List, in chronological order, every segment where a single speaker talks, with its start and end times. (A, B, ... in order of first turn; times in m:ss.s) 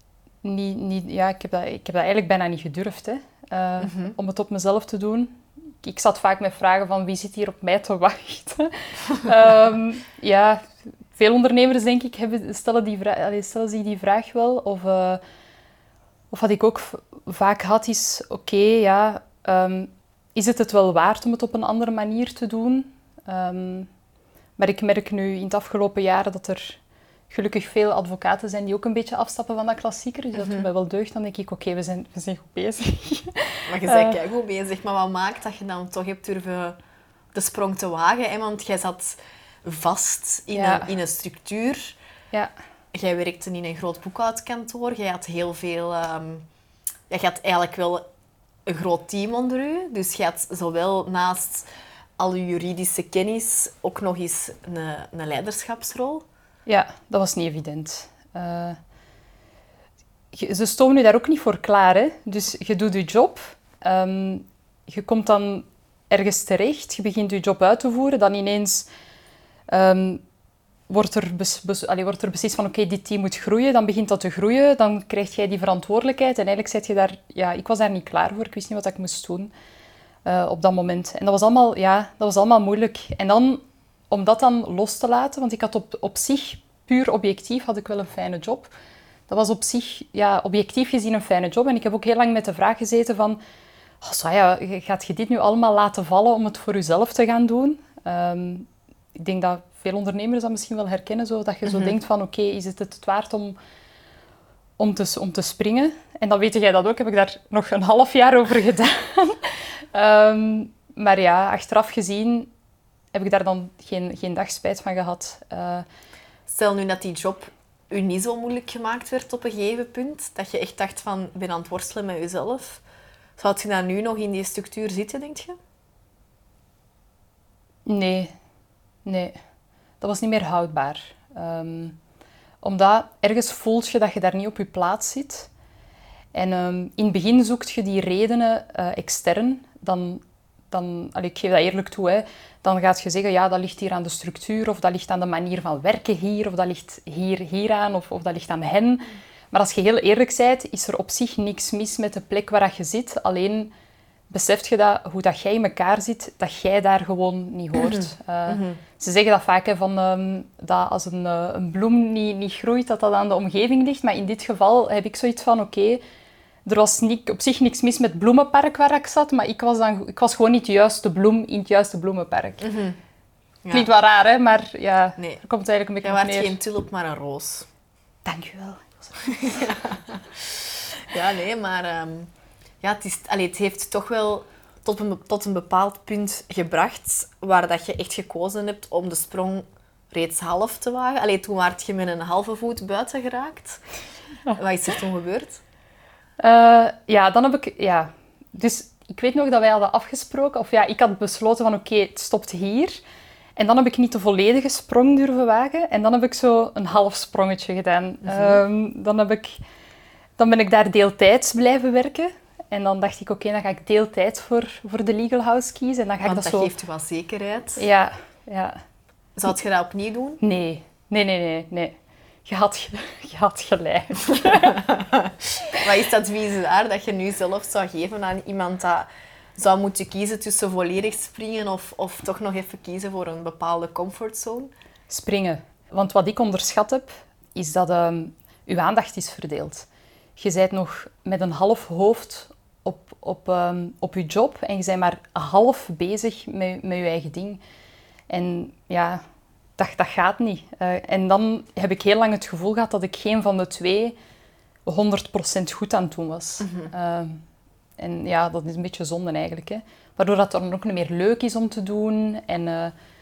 0:00.4-0:15.2 A
0:03.8-0:04.1 B
0:16.3-0:23.9 A
0:24.6-0:26.8 A
0:27.3-0:34.2 A
0:30.3-0:30.7 B
0:33.7-0:36.8 B
0:37.3-0:42.0 B
0:40.5-0:40.9 A
0:42.9-0:46.4 B
0:47.1-0:48.0 B
0:48.7-0:51.7 B
0:52.2-0:56.2 B
0:56.7-0:58.8 A
1:00.3-1:08.9 A
1:09.7-1:10.2 A
1:10.9-1:19.5 A
1:20.2-1:28.7 A
1:29.3-1:33.4 A
1:34.0-1:43.6 A
1:41.7-1:41.9 B
1:44.8-1:52.5 A
1:53.1-1:55.8 A
1:56.5-2:02.8 B
2:03.4-2:05.6 B
2:07.8-2:08.3 A
2:09.0-2:09.4 A
2:10.0-2:12.0 A
2:12.6-2:15.5 A
2:16.3-2:33.7 A
2:34.3-2:46.0 A
2:37.8-2:38.8 B
2:46.6-2:52.6 A
2:52.6-2:53.0 B
2:53.7-2:56.6 A
2:56.0-2:57.7 B
2:58.2-2:59.7 A
2:59.2-3:02.3 B
3:02.8-3:13.8 B
3:14.5-3:15.6 B
3:16.4-3:23.0 A
3:23.6-3:29.6 A
3:28.2-3:28.6 B
3:30.4-3:36.7 A
3:36.2-3:37.8 B
3:37.8-3:38.8 A
3:39.4-3:40.4 B
3:40.4-3:44.9 A
3:44.3-3:54.7 B
3:55.1-4:07.6 A
4:08.3-4:09.2 A
4:09.8-4:14.2 A
4:14.8-4:17.4 A
4:16.6-4:16.9 B
4:18.0-4:22.9 A